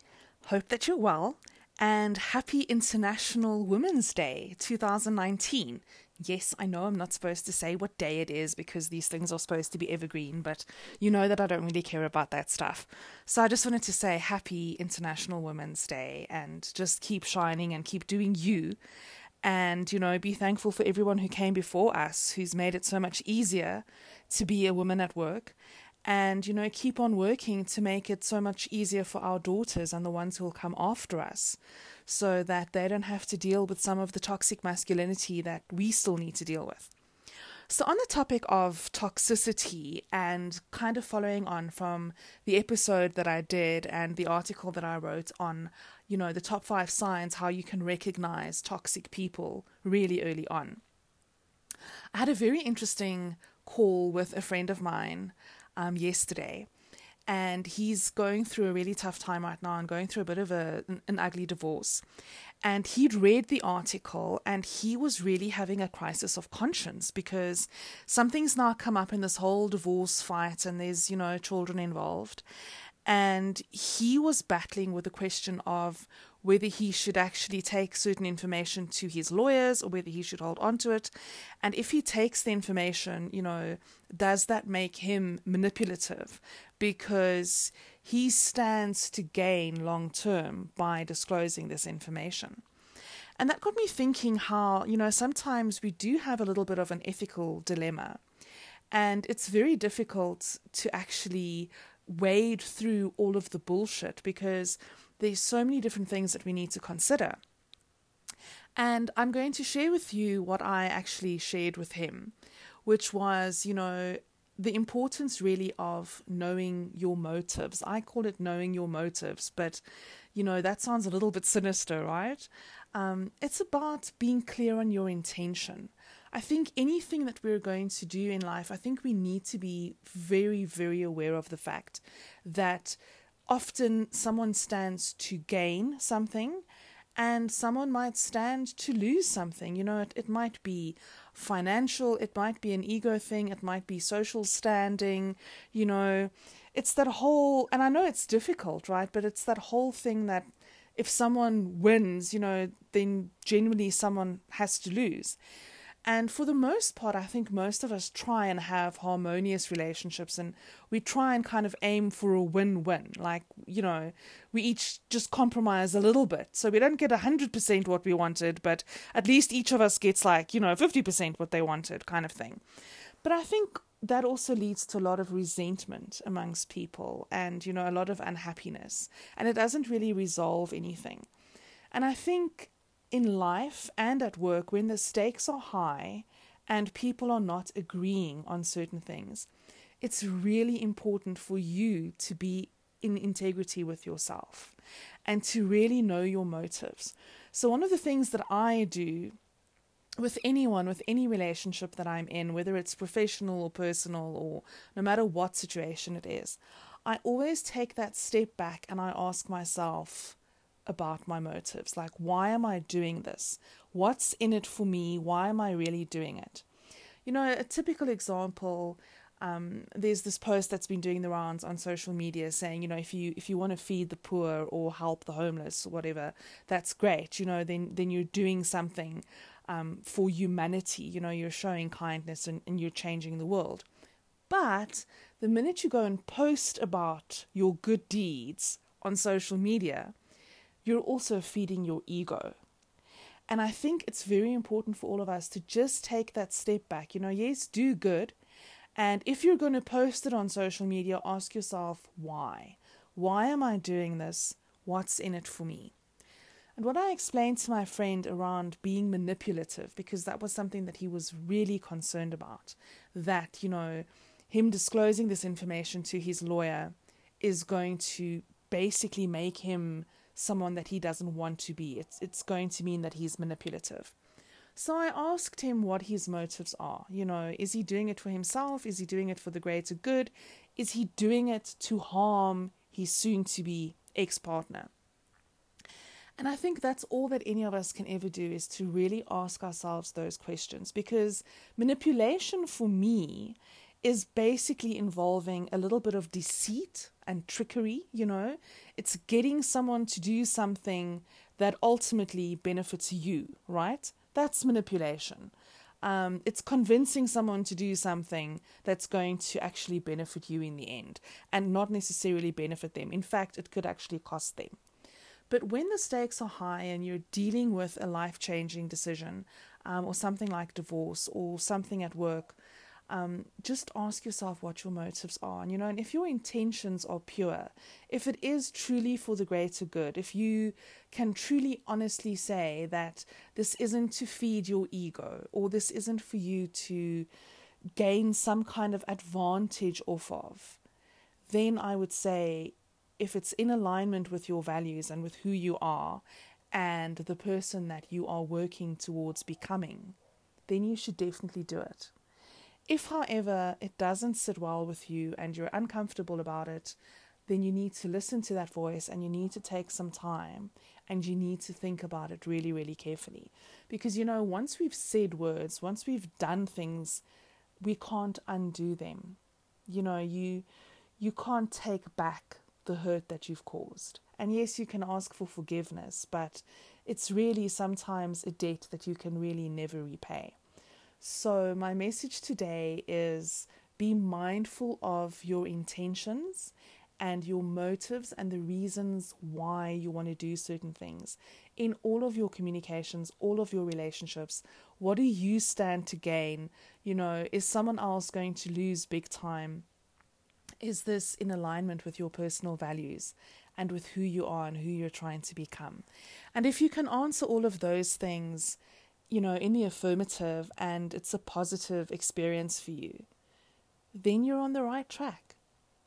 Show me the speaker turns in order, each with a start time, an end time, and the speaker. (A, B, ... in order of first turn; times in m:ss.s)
0:00.4-0:18.8 A
0:19.4-0:36.9 A
0:37.7-0:50.8 A
0:52.1-0:56.7 A
0:57.3-1:02.0 A
1:02.6-1:12.4 A
1:13.1-1:32.6 A
1:33.4-1:38.2 A
1:38.9-1:47.4 A
1:48.8-1:52.3 A
1:52.8-1:59.8 A
2:00.3-2:16.6 A
2:17.2-2:35.4 A
2:36.1-2:52.6 A
2:53.2-3:01.3 A
3:01.9-3:09.5 A
3:10.0-3:19.4 A
3:20.2-3:36.7 A
3:37.2-3:53.9 A
3:54.5-4:00.1 A
4:00.8-4:02.6 A
4:03.5-4:08.4 A
4:09.0-4:15.9 A
4:16.8-4:34.2 A
4:34.8-4:44.9 A
4:46.4-5:14.8 A
5:15.5-5:22.6 A
5:23.1-5:37.3 A
5:37.9-5:40.8 A
5:41.5-5:52.1 A
5:52.9-6:07.2 A
6:07.8-6:10.7 A
6:11.2-6:20.6 A
6:21.2-6:39.9 A
6:40.8-6:48.8 A
6:49.3-6:53.2 A
6:54.1-6:55.6 A